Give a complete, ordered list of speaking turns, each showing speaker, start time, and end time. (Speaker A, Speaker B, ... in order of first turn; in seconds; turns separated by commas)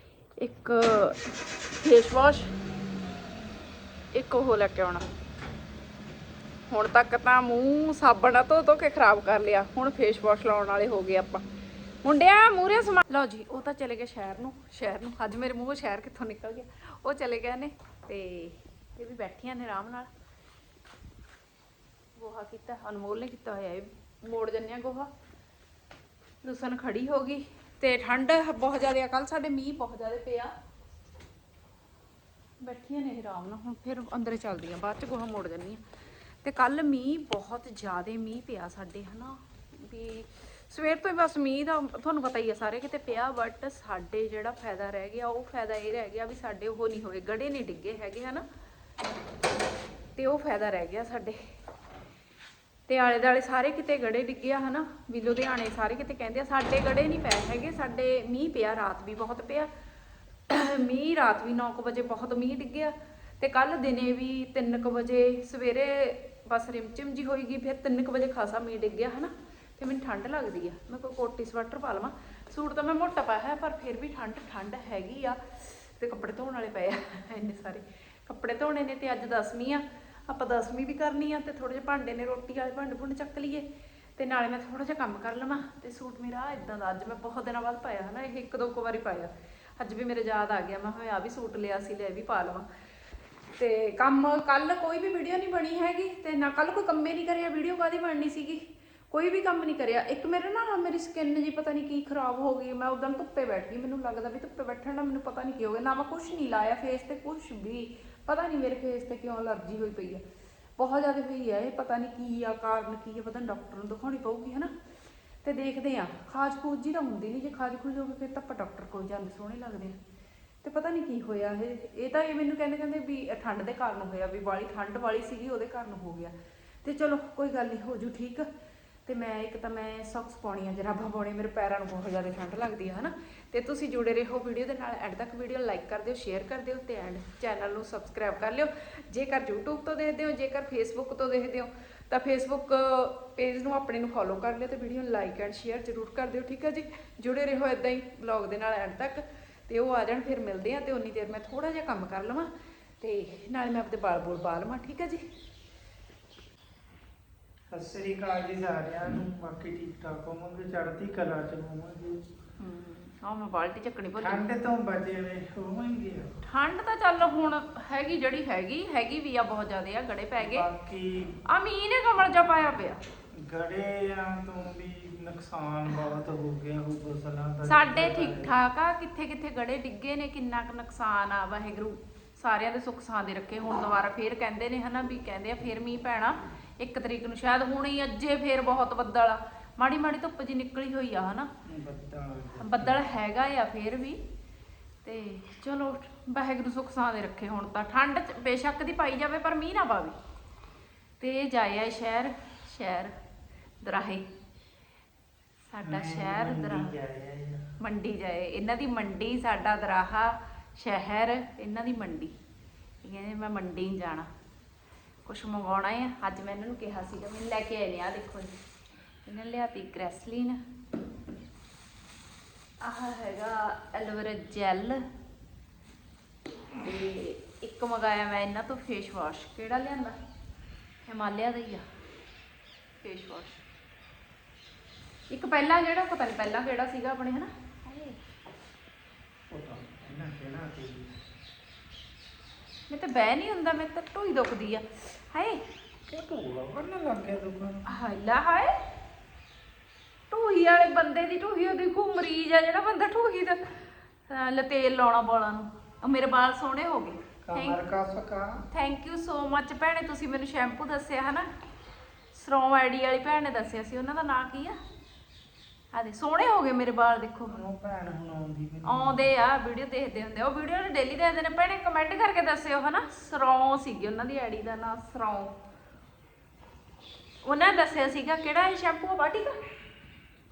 Speaker A: 0.4-1.2, Speaker A: 1.8-2.5, Speaker A: 4.1-5.0, Speaker A: 6.7-11.4, Speaker A: 12.0-20.1, Speaker A: 22.2-25.1, Speaker A: 26.4-30.5, Speaker A: 32.6-35.8, Speaker A: 36.4-48.4, Speaker A: 50.1-51.4, Speaker A: 52.9-59.7, Speaker A: 60.5-83.7, Speaker A: 84.2-92.7, Speaker A: 93.6-110.2, Speaker A: 110.8-114.7, Speaker A: 115.4-120.0, Speaker A: 120.6-128.5, Speaker A: 129.1-152.5, Speaker A: 153.0-155.2, Speaker B: 157.7-162.2, Speaker A: 162.6-164.4, Speaker B: 164.2-166.3, Speaker A: 166.4-170.7, Speaker B: 170.4-171.4, Speaker A: 171.5-173.0, Speaker B: 173.4-178.6, Speaker A: 177.7-191.5, Speaker B: 191.7-193.0, Speaker A: 192.6-194.2, Speaker A: 195.0-200.2, Speaker A: 201.2-203.1, Speaker A: 203.8-204.2, Speaker A: 205.7-206.9, Speaker B: 205.8-207.6, Speaker A: 207.8-212.3, Speaker A: 213.0-214.3, Speaker A: 215.2-218.6, Speaker A: 219.2-220.6, Speaker A: 222.8-225.1, Speaker A: 226.8-230.2, Speaker A: 231.1-231.8, Speaker A: 233.0-233.6, Speaker A: 235.3-238.2, Speaker B: 239.5-241.1, Speaker A: 242.9-245.6, Speaker B: 246.1-247.8, Speaker A: 247.9-248.7, Speaker A: 250.3-253.8, Speaker A: 254.3-257.8, Speaker B: 257.4-258.6, Speaker A: 258.7-261.5, Speaker A: 262.3-264.8, Speaker A: 265.9-267.6, Speaker B: 267.5-269.3, Speaker A: 268.9-275.5, Speaker A: 277.4-279.6